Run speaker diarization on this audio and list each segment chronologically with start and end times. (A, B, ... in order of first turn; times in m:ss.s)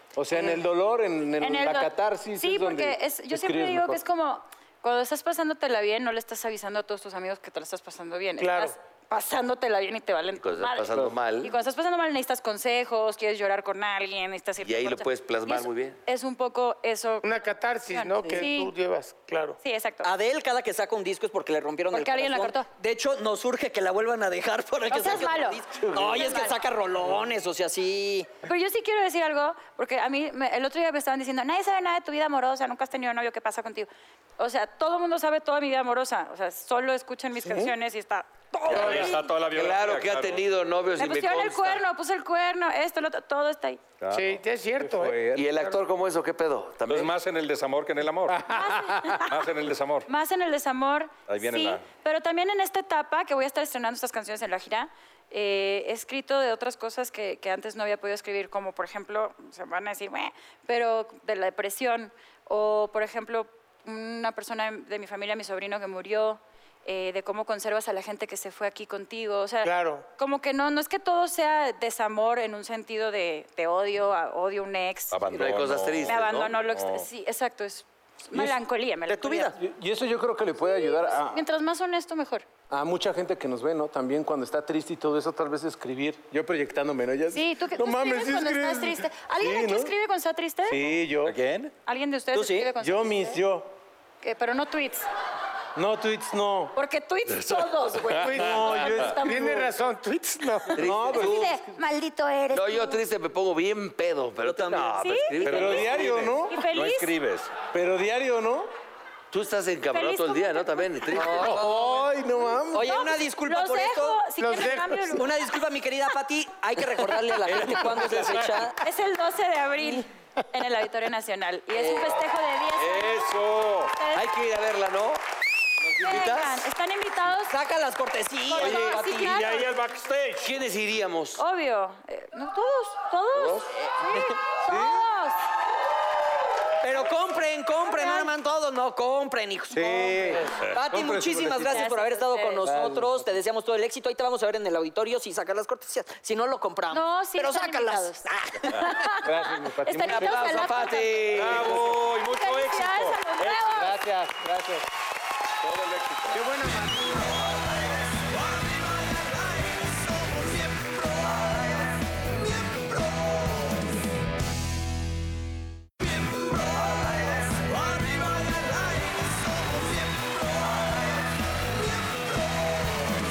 0:00.2-0:04.0 A
0:01.4-0:17.3 B
0:08.4-0:08.8 C
0:10.4-0:11.5 D
0:14.6-0:16.0 D
0:17.2-0:19.6 C
0:17.9-0:18.7 B
0:19.6-0:20.1 B
0:20.0-0:28.3 E
0:21.9-0:22.7 B
0:24.9-0:26.6 B
0:25.8-0:26.3 A
0:28.4-0:39.3 B
0:37.4-0:37.7 A
0:38.7-0:40.4 F
0:38.8-0:41.8 D
0:41.0-0:43.8 B
0:44.0-0:44.4 F
0:44.1-0:45.8 C
0:44.8-0:45.6 A
0:45.3-0:47.1 D
0:46.9-0:48.4 F
0:48.3-0:49.2 A
0:48.5-0:49.4 B
0:49.2-0:50.1 F
0:50.1-1:15.2 B
0:51.3-0:51.8 F
1:09.6-1:10.0 C
1:15.1-1:17.1 F
1:15.3-1:16.5 D
1:16.0-1:19.5 B
1:19.1-1:19.6 E
1:19.6-1:21.4 A
1:20.6-1:22.4 B
1:22.7-1:29.9 A
1:27.3-1:30.8 B
1:30.7-1:31.4 A
1:31.2-1:31.7 F
1:31.9-1:33.4 B
1:32.3-1:32.7 E
1:32.8-1:33.7 A
1:34.2-1:35.1 B
1:35.8-1:36.7 A
1:36.8-1:39.6 B
1:37.3-1:39.1 F
1:38.2-1:40.8 C
1:38.4-1:39.7 A
1:40.8-1:41.6 D
1:40.8-1:41.6 A
1:41.0-1:43.0 B
1:42.5-1:46.1 D
1:44.4-1:45.0 E
1:45.0-1:47.1 B
1:45.4-1:47.5 F
1:45.4-1:46.6 A
1:47.7-1:48.7 A
1:49.3-1:51.7 D
1:49.9-1:51.2 B
1:51.1-1:51.8 E
1:51.2-1:52.9 A
1:52.7-1:54.2 E
1:52.8-1:55.3 B
1:54.4-1:55.1 C
1:55.1-1:58.8 E
1:57.5-1:58.6 F
1:58.8-2:03.3 B
2:01.8-2:02.2 E
2:02.8-2:04.0 F
2:04.0-2:04.3 B
2:04.1-2:05.2 D
2:05.8-2:06.6 D
2:06.0-2:07.6 B
2:07.4-2:09.5 E
2:08.5-2:09.7 B
2:08.6-2:09.0 D
2:09.1-2:10.5 F
2:10.4-2:11.4 D
2:11.4-2:15.4 B
2:13.3-2:13.7 D
2:13.8-2:14.4 E
2:14.7-2:15.0 A
2:16.8-2:29.0 E
2:17.8-2:18.3 B
2:19.7-2:21.8 A
2:21.6-2:22.7 B
2:22.6-2:23.3 A
2:26.9-2:34.0 B
2:29.2-2:30.5 A
2:30.1-2:31.8 D
2:31.3-2:33.7 F
2:33.7-2:34.9 A
2:35.6-2:36.4 F
2:36.3-2:37.1 A
2:37.1-2:41.7 D
2:42.6-2:43.4 D
2:46.4-2:50.9 D